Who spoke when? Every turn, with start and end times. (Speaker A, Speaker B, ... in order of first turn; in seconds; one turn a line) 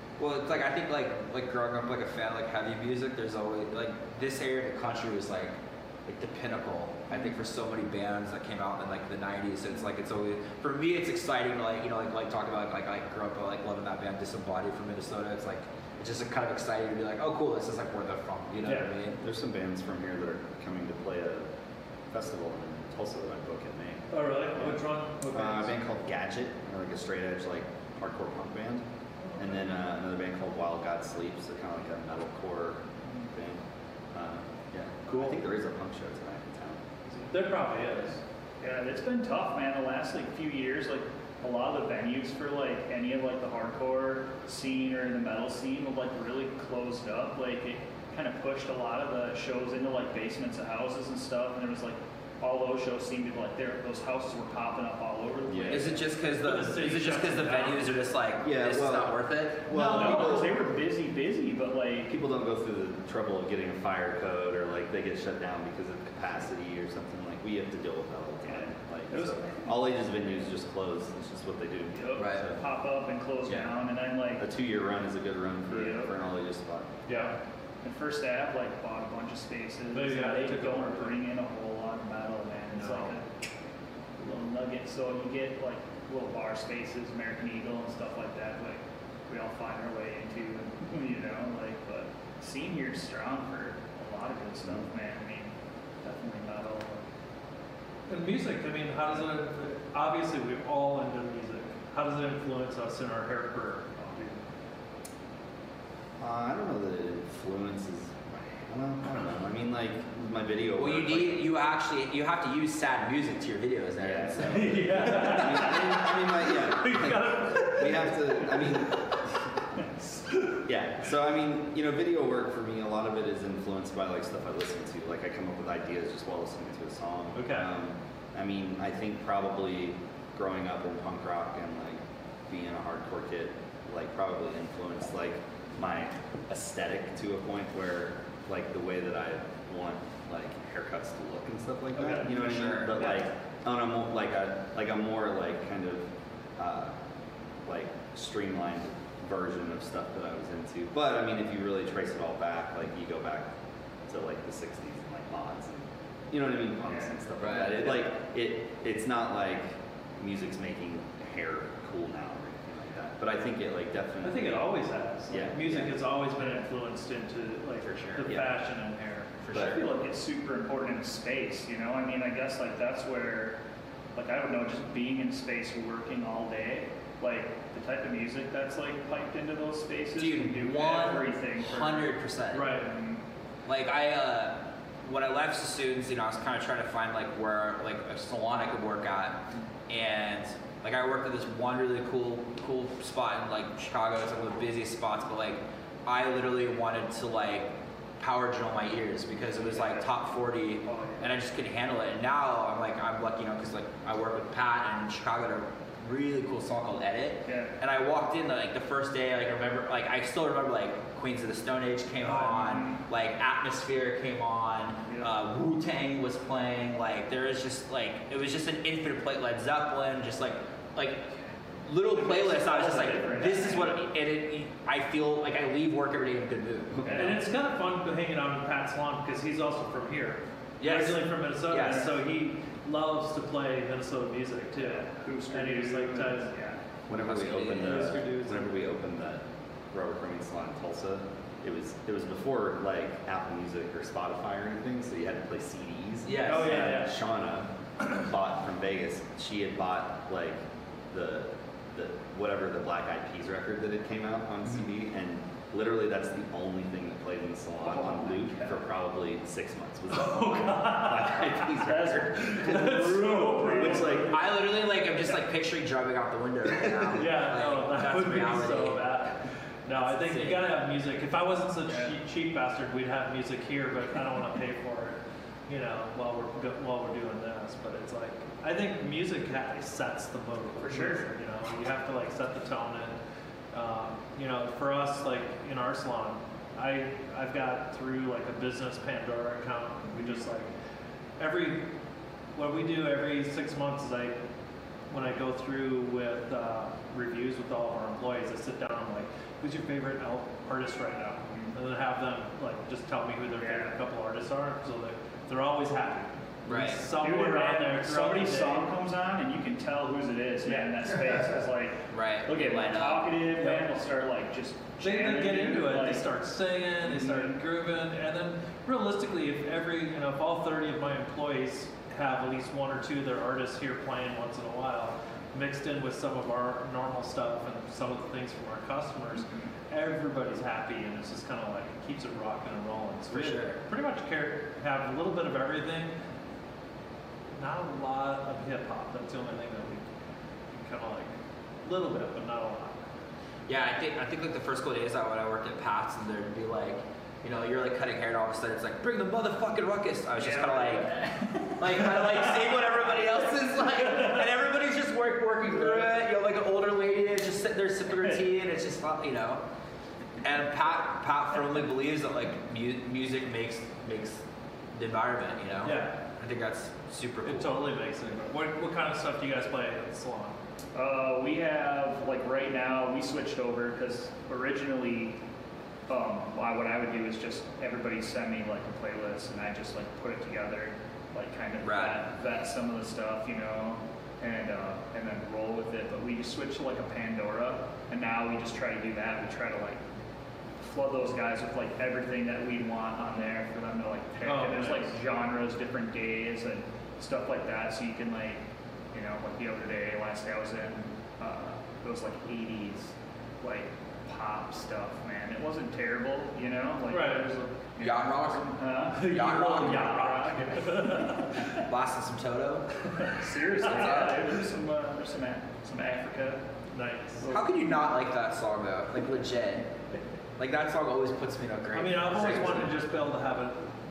Speaker A: 0.2-19.2
Speaker B: 7.1-7.3
Speaker C: 18.6-18.9
Speaker D: 18.6-21.5
Speaker D: 22.1-28.8
Speaker C: 24.1-25.7
Speaker D: 29.4-33.6
Speaker D: 34.1-36.8
Speaker C: 37.3-38.2
Speaker B: 38.6-56.0
Speaker D: 55.5-55.9
Speaker A: 55.7-59.7
Speaker C: 56.4-57.9
Speaker D: 58.4-60.6
Speaker B: 59.7-62.1
Speaker C: 59.7-60.4
Speaker D: 62.1-72.6
Speaker B: 68.5-69.7
Speaker B: 72.0-74.4
Speaker A: 72.2-72.4
Speaker D: 73.5-73.7
Speaker D: 74.4-77.0
Speaker B: 75.7-76.1
Speaker C: 77.1-77.3
Speaker B: 77.8-83.2
Speaker C: 79.9-81.2
Speaker C: 82.7-83.1
Speaker B: 84.2-97.0
Speaker C: 98.1-103.9
Speaker B: 104.0-104.4
Speaker D: 106.2-111.4
Speaker A: 110.8-115.2
Speaker D: 114.0-119.3
Speaker C: 114.5-119.2
Speaker C: 120.3-120.6
Speaker D: 120.6-147.0
Speaker C: 127.3-127.7
Speaker A: 142.0-143.0
Speaker D: 147.6-153.5
Speaker D: 154.1-164.8
Speaker B: 156.9-157.1
Speaker A: 157.4-158.1
Speaker C: 164.2-169.3
Speaker D: 165.3-166.0
Speaker A: 167.8-168.4
Speaker D: 168.2-168.5
Speaker A: 169.4-169.8
Speaker D: 169.5-169.8
Speaker B: 169.5-173.6
Speaker B: 174.1-183.2
Speaker A: 180.2-182.8
Speaker C: 182.5-182.9
Speaker A: 183.7-227.4
Speaker B: 199.6-200.1
Speaker B: 200.9-201.3
Speaker B: 207.4-207.7
Speaker B: 212.2-213.0
Speaker B: 222.1-224.0
Speaker D: 226.9-227.4
Speaker B: 227.1-227.3
Speaker C: 227.1-236.5
Speaker A: 230.8-232.1
Speaker B: 234.8-236.8
Speaker D: 237.1-250.6
Speaker A: 237.1-238.1
Speaker C: 237.7-238.7
Speaker A: 246.2-247.0
Speaker C: 246.3-247.1
Speaker D: 251.1-264.5
Speaker B: 257.8-258.8
Speaker C: 260.1-261.7
Speaker B: 261.8-264.6
Speaker C: 262.4-264.2
Speaker A: 264.3-269.2
Speaker D: 266.8-267.2
Speaker C: 267.1-283.1
Speaker A: 270.0-270.7
Speaker B: 271.9-272.1
Speaker B: 280.8-281.2
Speaker C: 283.7-290.7
Speaker C: 291.4-291.9
Speaker C: 292.5-294.4
Speaker C: 295.1-308.9
Speaker B: 303.6-303.9
Speaker A: 306.6-307.0
Speaker B: 307.1-316.2
Speaker A: 312.1-313.3
Speaker C: 313.6-313.9
Speaker C: 315.0-336.1
Speaker B: 317.1-317.6
Speaker B: 329.5-329.7
Speaker A: 333.3-333.8
Speaker C: 337.6-340.1
Speaker C: 340.7-343.0
Speaker A: 343.7-359.6
Speaker B: 350.4-352.8
Speaker B: 355.7-356.0
Speaker A: 360.4-367.7
Speaker C: 365.8-366.1
Speaker C: 367.4-370.6
Speaker B: 370.9-375.4
Speaker B: 376.1-390.0
Speaker A: 381.8-382.2
Speaker B: 390.8-411.2
Speaker C: 394.4-395.2
Speaker C: 407.1-407.5
Speaker A: 408.0-410.7
Speaker C: 409.1-411.8
Speaker A: 411.7-414.5
Speaker B: 413.2-416.6
Speaker C: 416.9-417.5
Speaker B: 417.4-417.9
Speaker A: 417.5-419.9
Speaker A: 420.6-422.9
Speaker C: 421.9-423.9